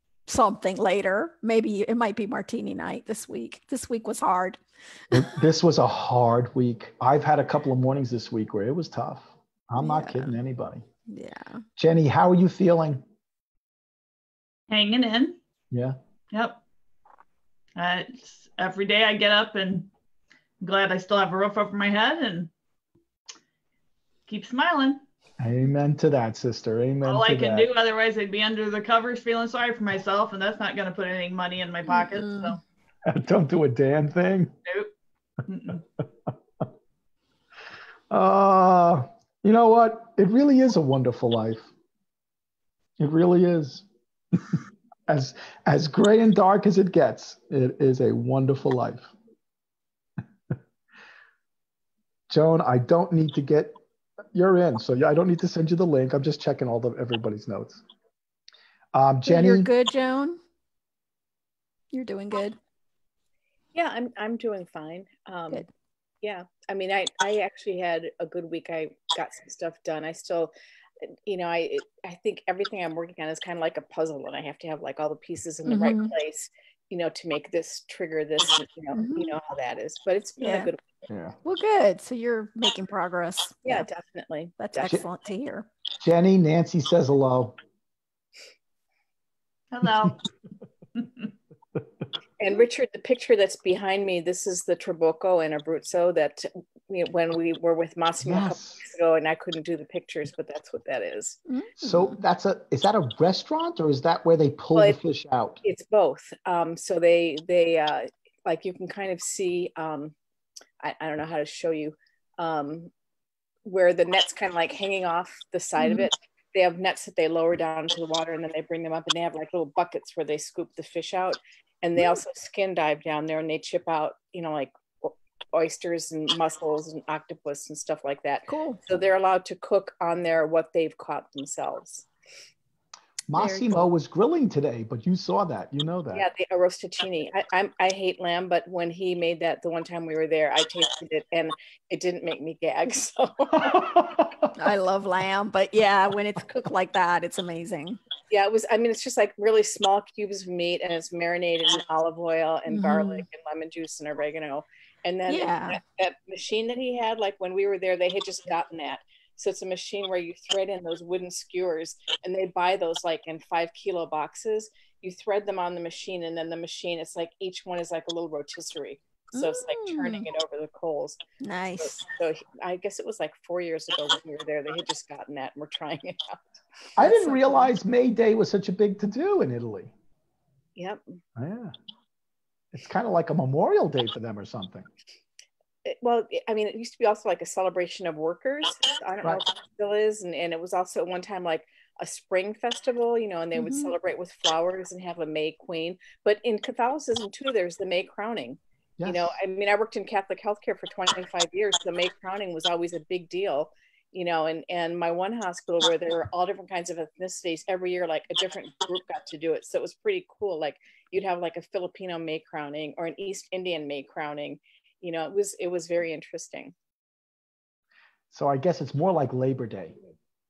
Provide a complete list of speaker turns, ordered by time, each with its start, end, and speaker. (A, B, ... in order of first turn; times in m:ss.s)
0:00.2-0:04.6 A
0:05.1-0:10.8 B
0:09.8-0:10.3 A
0:11.1-0:11.6 A
0:11.8-0:13.0 B
0:14.7-0:15.4 C
0:15.7-0:16.0 B
0:16.3-0:16.6 C
0:17.8-0:19.9 C
0:20.6-0:22.5 C
0:24.3-0:25.0 C
0:25.4-0:27.7 B
0:27.0-0:32.6 C
0:31.9-0:32.6 A
0:33.0-0:34.5 B
0:34.6-0:34.9 C
0:35.5-0:35.8 C
0:38.1-0:41.7 B
0:43.0-0:49.1 B
0:52.3-0:53.8 B
0:54.3-0:57.8 B
0:58.9-0:59.7 B
0:59.2-1:00.4 A
1:01.9-1:02.6 A
1:03.7-1:05.7 D
1:06.2-1:21.0 D
1:15.6-1:16.1 A
1:18.9-1:19.3 A
1:20.4-1:20.7 A
1:21.1-1:21.3 B
1:21.4-1:23.9 A
1:23.6-1:25.0 D
1:24.6-1:25.7 A
1:26.0-1:27.6 B
1:29.7-1:30.2 C
1:29.8-1:30.1 B
1:30.9-1:31.2 C
1:32.4-1:41.4 D
1:38.2-1:38.8 B
1:41.8-1:45.6 B
1:45.6-1:50.1 D
1:50.8-1:52.9 D
1:53.6-2:12.1 D
1:55.8-1:56.1 A
2:08.5-2:08.8 A
2:13.3-2:16.2 B
2:13.4-2:13.6 A
2:16.1-2:24.0 D
2:23.7-2:24.2 B
2:24.5-2:28.0 A
2:28.3-2:51.2 D
2:32.7-2:33.2 A
2:35.3-2:35.8 A
2:49.3-2:50.2 A
2:51.4-2:52.0 A
2:51.8-2:57.5 D
2:57.0-2:59.9 B
3:00.8-3:01.0 D
3:01.4-3:01.7 B
3:02.7-3:04.9 B
3:05.8-3:36.7 D
3:13.5-3:13.9 A
3:19.0-3:19.4 B
3:38.3-3:40.0 B